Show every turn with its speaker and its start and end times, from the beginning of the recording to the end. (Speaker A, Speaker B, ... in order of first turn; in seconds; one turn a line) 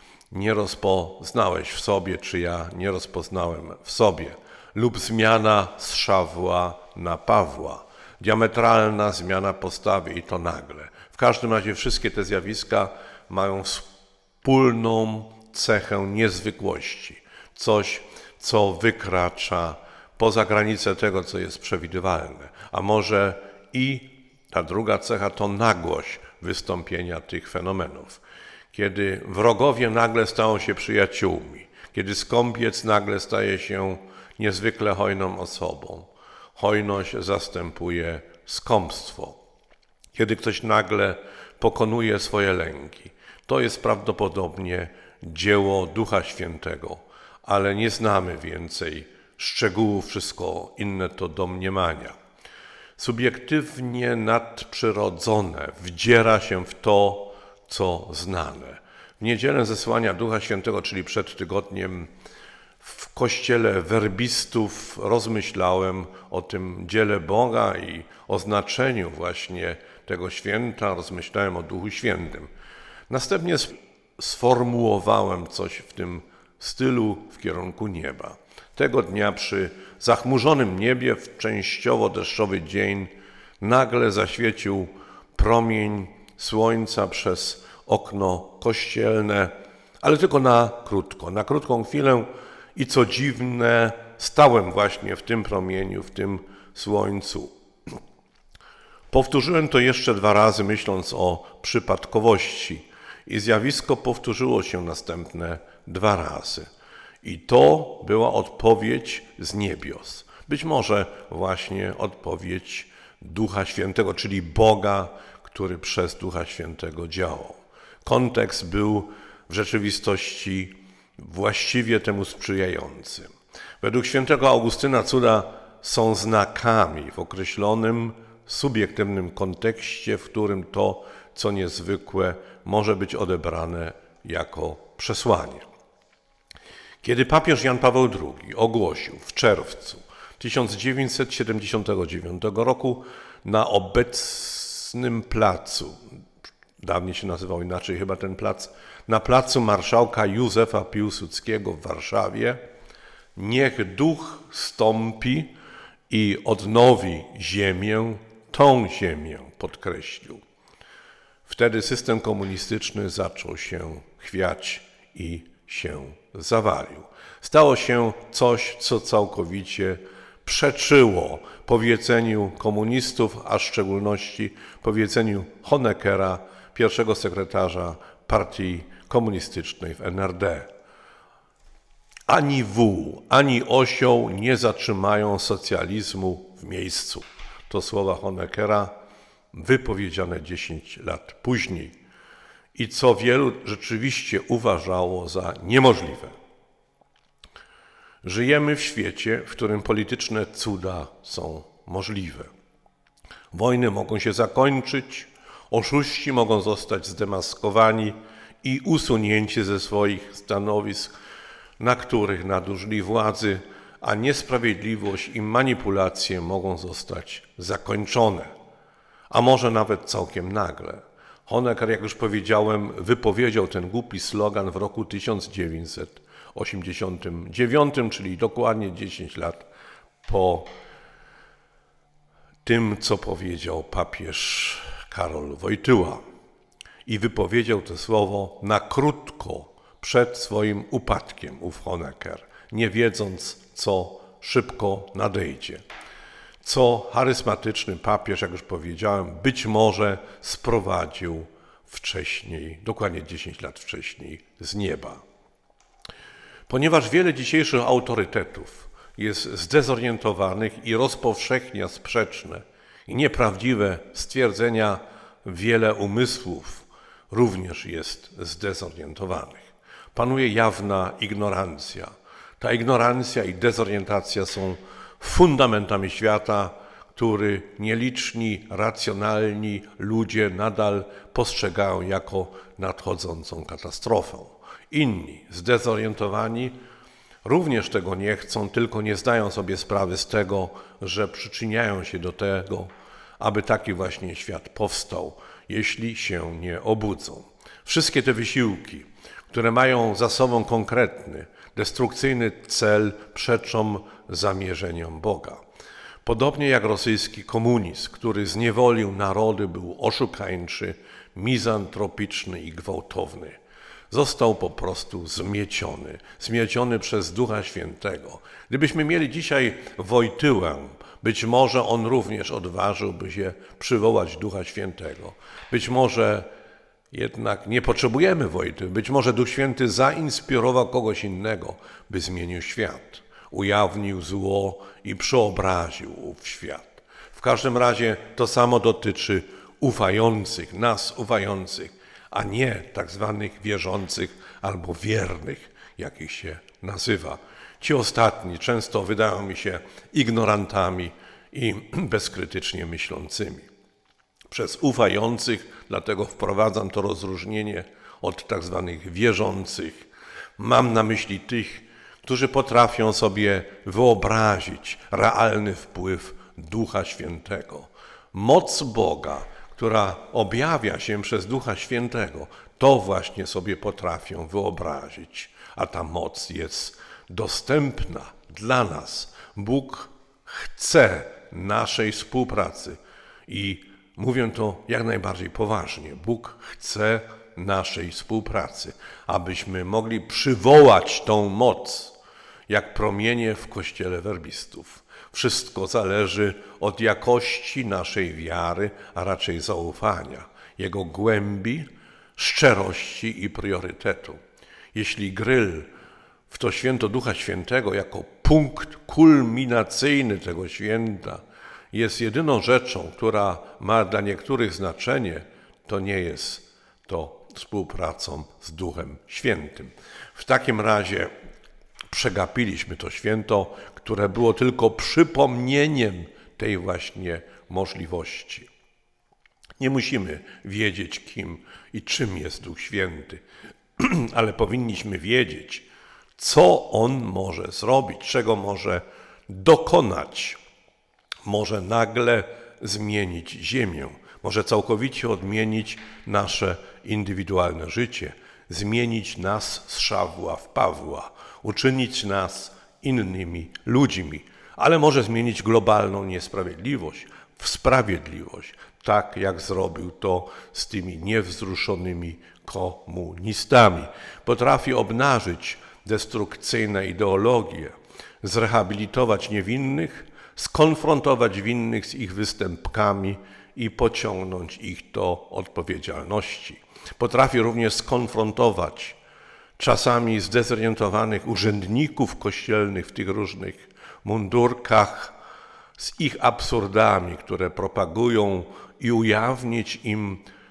Speaker A: 0.3-13.9
Speaker A: 14.4-28.2
Speaker A: 28.7-39.4
Speaker A: 40.1-52.2
Speaker A: 53.0-62.1
Speaker A: 62.8-72.5
Speaker A: 73.1-97.5
Speaker A: 99.1-106.7
Speaker A: 107.2-135.7
Speaker A: 137.0-146.0
Speaker A: 146.8-152.6
Speaker A: 153.3-155.5
Speaker A: 156.1-160.4
Speaker A: 161.5-180.7
Speaker A: 182.3-188.9
Speaker A: 189.5-192.0
Speaker A: 192.7-196.3
Speaker A: 198.2-202.5
Speaker A: 203.5-211.1
Speaker A: 211.8-218.5
Speaker A: 219.3-229.7
Speaker A: 230.2-230.7
Speaker A: 232.6-236.2
Speaker A: 237.1-245.8
Speaker A: 246.6-255.2
Speaker A: 256.7-286.8
Speaker A: 287.4-305.6
Speaker A: 306.2-313.6
Speaker A: 314.1-326.5
Speaker A: 327.1-353.7
Speaker A: 354.5-404.4
Speaker A: 404.9-405.9
Speaker A: 406.5-421.3
Speaker A: 422.1-428.7
Speaker A: 429.8-433.4
Speaker A: 434.0-440.6
Speaker A: 441.4-479.2
Speaker A: 479.8-485.4
Speaker A: 486.0-490.5